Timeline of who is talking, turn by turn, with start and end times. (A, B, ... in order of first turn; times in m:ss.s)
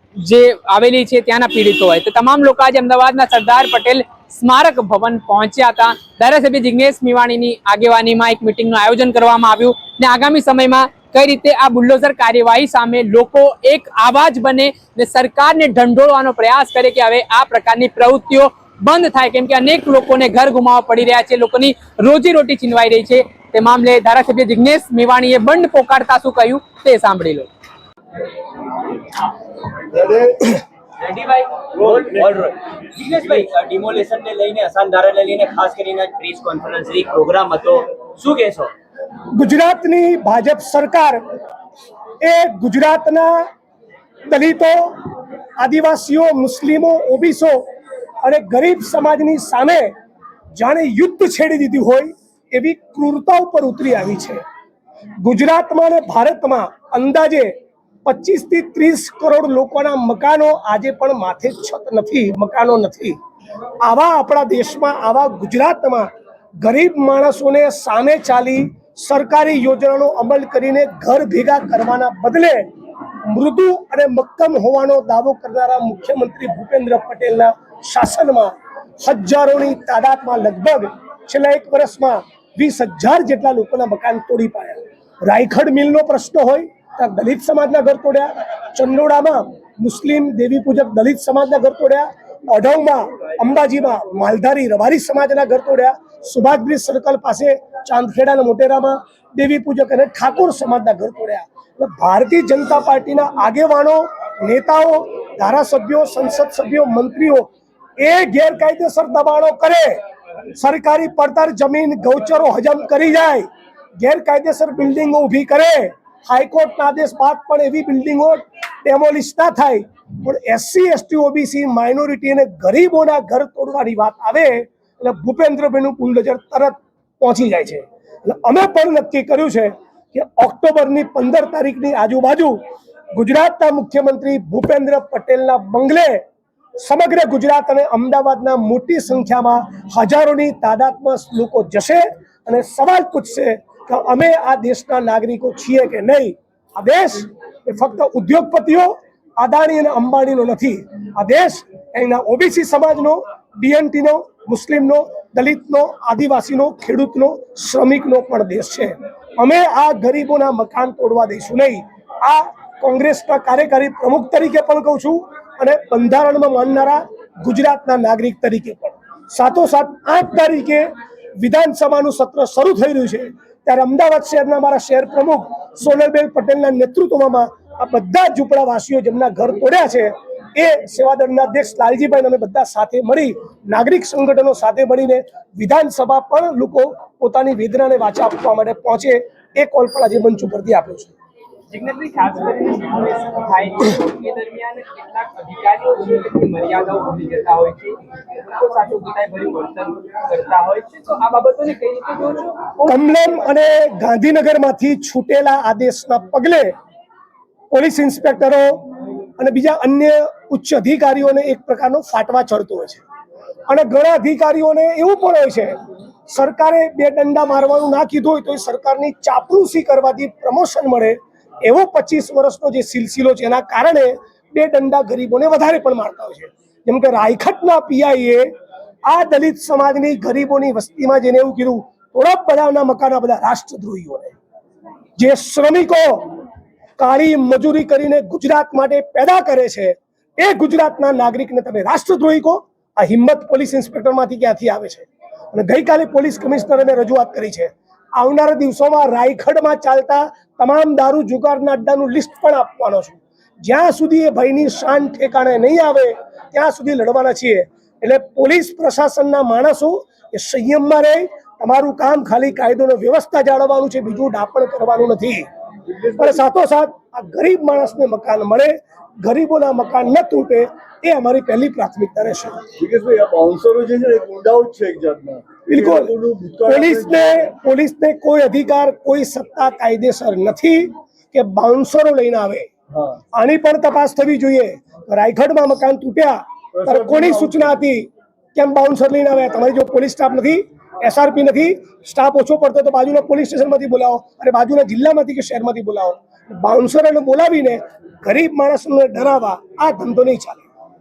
0:00.2-0:27.5 A
0:29.9-0:30.6 B
0:31.0-0:38.7 C
0:31.8-0:32.3 B
0:39.3-0:41.2 D
0:42.2-0:43.5 D
0:44.3-0:45.0 D
0:45.6-0:47.6 D
0:48.2-0:49.9 D
0:50.5-0:54.4 D
0:55.2-0:57.5 D
0:58.0-1:03.2 D
1:03.8-1:06.1 D
1:06.6-1:12.7 D
1:13.2-1:50.0 D
1:50.5-1:53.4 D
1:54.0-2:12.6 D
2:13.1-2:16.2 D
2:16.8-3:11.1 D
3:11.7-3:23.5 A
3:22.8-3:26.7 D
3:27.7-3:28.8 D
3:29.4-3:33.0 D
3:33.7-3:35.8 D
3:36.3-3:48.5 D
3:49.0-3:54.3 D
3:55.2-3:56.4 D
3:57.0-4:25.4 D
4:25.8-4:26.4 B
4:26.2-4:32.6 D
4:32.8-4:37.4 B
4:35.7-4:42.7 D
4:43.3-5:00.6 D
4:46.8-4:47.7 B